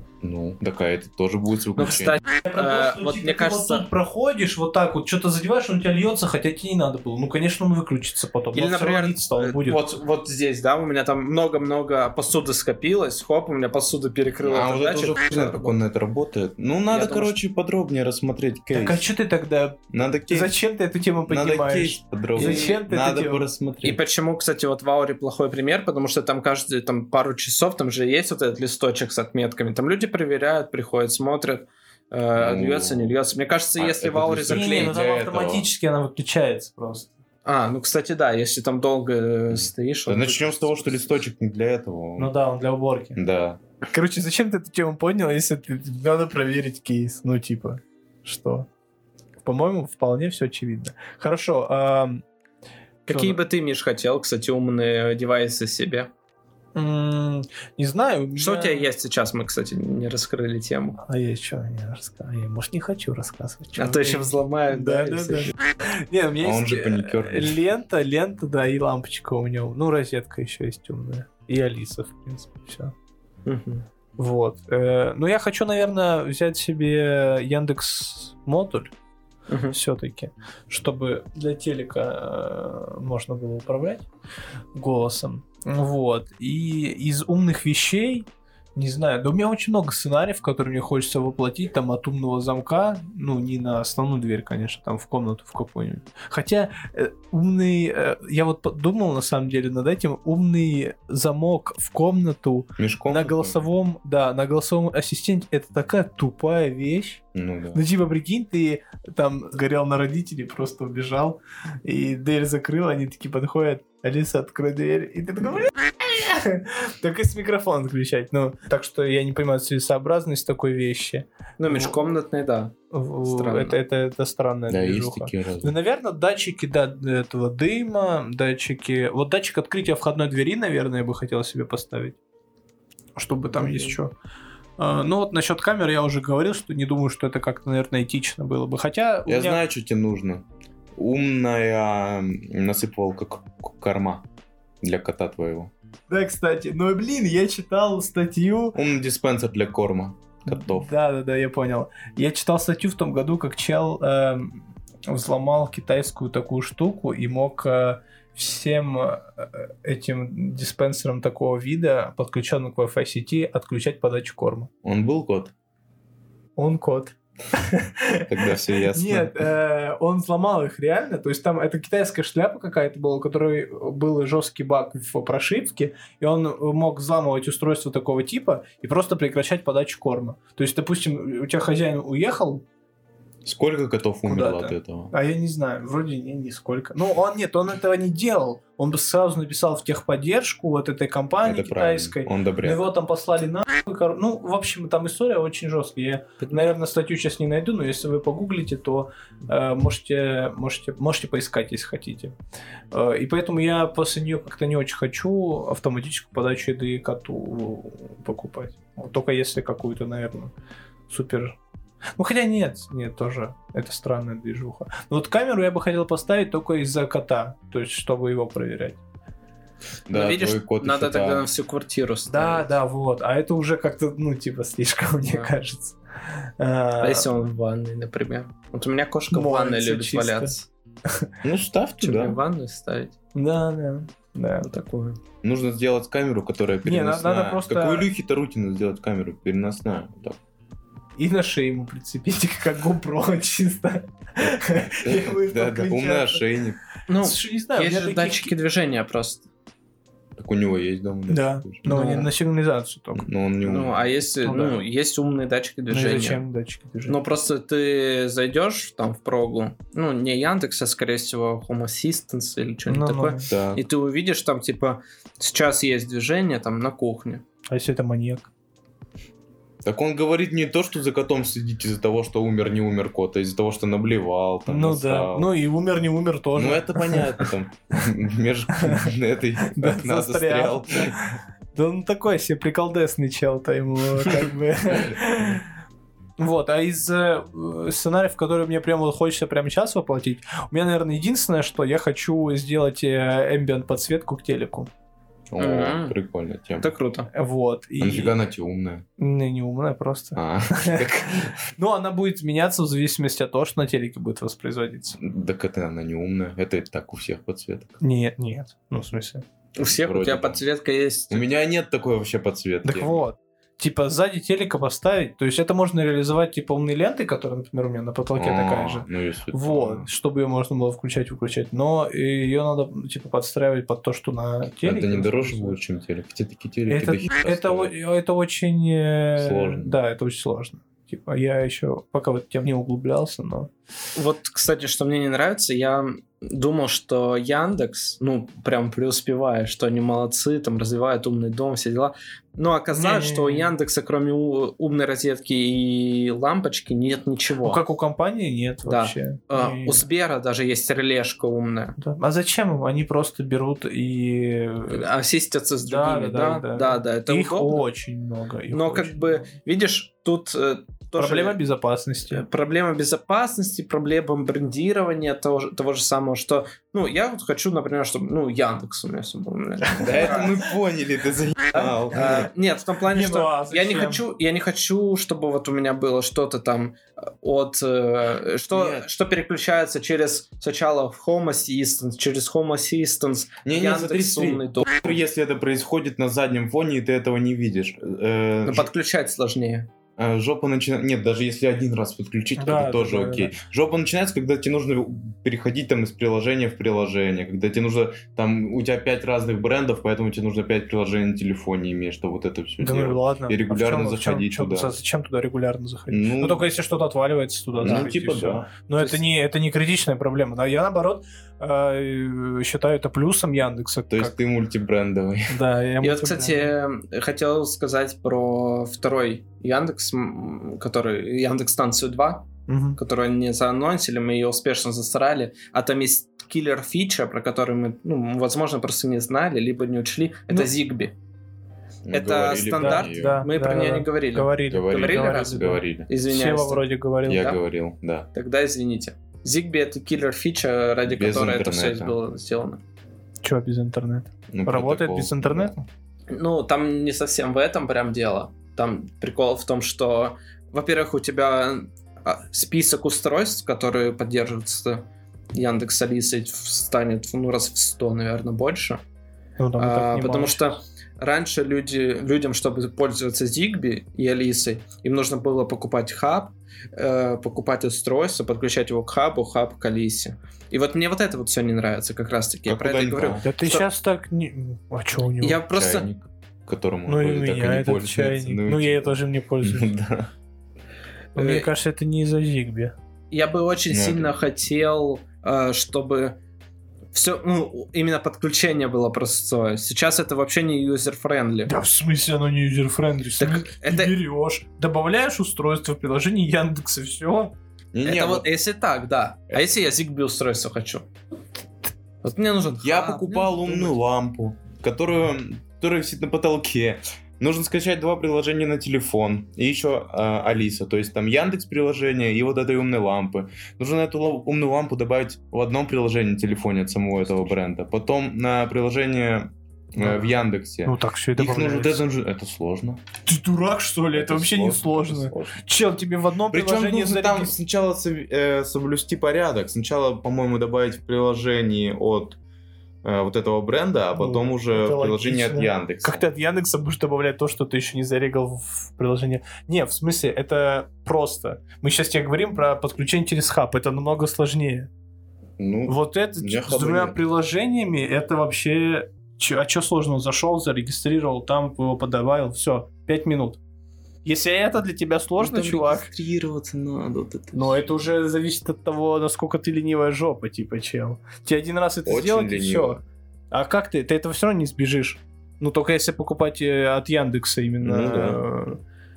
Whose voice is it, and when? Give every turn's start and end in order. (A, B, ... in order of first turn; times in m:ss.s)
0:00.2-0:02.2 A
0:01.8-0:03.9 B
0:02.4-0:09.8 C
0:08.5-0:15.8 B
0:14.4-0:19.0 A
0:16.9-0:17.4 B
0:18.7-0:23.4 C
0:19.9-0:20.6 A
0:21.3-0:24.0 A
0:22.4-0:22.8 B
0:23.8-0:35.0 B
0:32.4-0:33.2 A
0:33.8-0:35.7 A
0:34.5-0:37.1 C
0:37.4-0:41.1 B
0:39.5-0:42.3 A
0:42.2-0:43.2 C
0:43.2-0:43.6 A
0:43.9-0:48.7 C
0:49.4-0:52.2 C
0:53.1-0:56.1 B
0:53.1-0:53.4 C
0:56.8-0:58.9 C
0:58.4-1:01.0 B
1:01.0-1:12.9 C
1:03.8-1:05.5 B
1:06.4-1:07.6 A
1:13.4-1:13.8 B
1:14.2-1:18.9 C
1:19.5-1:19.8 B
1:19.7-1:24.1 C
1:24.7-1:47.2 C
1:42.8-1:43.6 A
1:47.3-1:47.8 A
1:47.7-2:02.0 C
2:01.6-2:02.7 B
2:02.9-2:12.2 C
2:03.2-2:03.8 B
2:04.7-2:05.8 A
2:13.2-2:14.1 C
2:13.6-2:13.9 B
2:14.8-2:19.6 C
2:19.3-2:24.2 A
2:24.8-2:25.7 A
2:26.1-2:28.8 C
2:28.8-2:30.9 A
2:30.5-2:44.7 C
2:44.8-2:45.5 A
2:46.6-3:02.6 C
2:48.3-2:49.5 A
3:03.4-3:05.1 A
3:04.2-3:22.3 C
3:11.4-3:12.9 A
3:16.4-3:16.7 B
3:22.9-3:30.5 C
3:31.1-3:31.6 C
3:32.2-3:39.0 C
3:40.1-3:41.5 A
3:40.1-3:42.7 B
3:42.3-3:46.0 C
3:45.3-3:45.5 B
3:46.6-3:47.3 C
3:47.0-3:50.7 B
3:49.3-3:50.5 C
3:51.4-3:52.4 A
3:52.0-3:53.2 B
3:53.4-3:54.7 C
3:54.6-3:55.2 B
3:55.4-4:00.4 A
3:56.8-3:58.1 C
4:01.2-4:06.4 C
4:04.7-4:06.8 A
4:07.1-4:09.5 B
4:07.2-4:08.5 C
4:10.4-4:11.9 A
4:11.3-4:13.3 C
4:11.9-4:12.3 B
4:13.1-4:14.1 A
4:13.6-4:16.4 B
4:14.4-4:14.8 C
4:15.9-4:17.2 C
4:17.1-4:27.4 B
4:22.9-4:23.4 C
4:23.5-4:23.8 A
4:27.7-4:28.5 C
4:29.8-4:35.5 A
4:34.7-4:37.4 C
4:36.6-4:41.2 A
4:39.7-4:45.6 C
4:46.4-4:54.9 C
4:55.5-4:56.9 A
4:55.6-4:56.2 B
4:56.8-4:57.3 B
4:57.3-4:58.4 C
4:58.0-4:59.0 A
4:59.2-5:01.1 C
5:00.4-5:01.6 A
5:01.7-5:05.2 C
5:05.2-5:07.9 A
5:08.0-5:09.4 C
5:09.8-5:11.5 B
5:10.0-5:10.6 A
5:11.3-5:13.2 A
5:12.8-5:25.8 C
5:18.4-5:20.1 A
5:24.8-5:27.9 A
5:26.9-5:33.7 C
5:29.4-5:30.0 A
5:34.2-5:47.8 B
5:42.9-5:43.7 C
5:47.6-5:50.0 C
5:48.8-5:52.0 B
5:52.0-5:55.1 C
5:54.9-5:57.8 B
5:55.8-5:59.5 C
5:58.7-6:01.6 B
6:01.2-6:02.4 C
6:02.3-6:10.6 B
6:10.0-6:12.5 A
6:11.8-6:25.2 B
6:13.1-6:14.2 C
6:18.7-6:19.1 A
6:23.6-6:28.9 A
6:28.6-6:29.9 B
6:30.2-6:44.9 A
6:32.6-6:33.5 C
6:42.8-6:54.4 C
6:46.1-6:46.7 A
6:47.8-6:48.7 A
6:54.1-6:55.6 A
6:55.5-6:56.7 C
6:56.0-7:11.1 B
7:02.7-7:03.0 C
7:12.1-7:13.5 A
7:12.1-7:17.6 B
7:12.8-7:17.5 C
7:14.7-7:16.1 A
7:17.3-7:18.3 A
7:18.3-7:22.8 B
7:21.1-7:22.2 A
7:23.4-7:25.9 C
7:24.5-7:25.7 A
7:26.3-7:39.0 B
7:39.6-7:40.7 C
7:39.8-7:53.8 B
7:52.7-7:53.4 A
7:53.4-7:55.6 C
7:55.4-7:56.1 B
7:55.7-8:00.3 A
7:57.1-7:59.9 C
8:01.4-8:01.7 B
8:01.4-8:02.9 C
8:03.3-8:06.4 B
8:03.9-8:04.4 A
8:07.1-8:11.7 B
8:11.7-8:17.5 C
8:13.4-8:14.2 B
8:17.9-8:18.5 A
8:18.0-8:21.0 B
8:22.2-8:23.9 B
8:22.8-8:43.0 A
8:40.0-8:40.2 C
8:40.8-8:42.0 C
8:43.2-8:47.6 C
8:44.2-8:45.6 A
8:46.5-8:52.4 A
8:53.0-8:56.2 A
8:54.2-9:04.9 C
9:05.6-9:07.2 A
9:05.9-9:13.6 C
9:14.2-9:16.1 C
9:15.4-9:17.8 A
9:17.5-9:28.8 C
9:22.1-9:23.0 A
9:27.8-9:28.4 A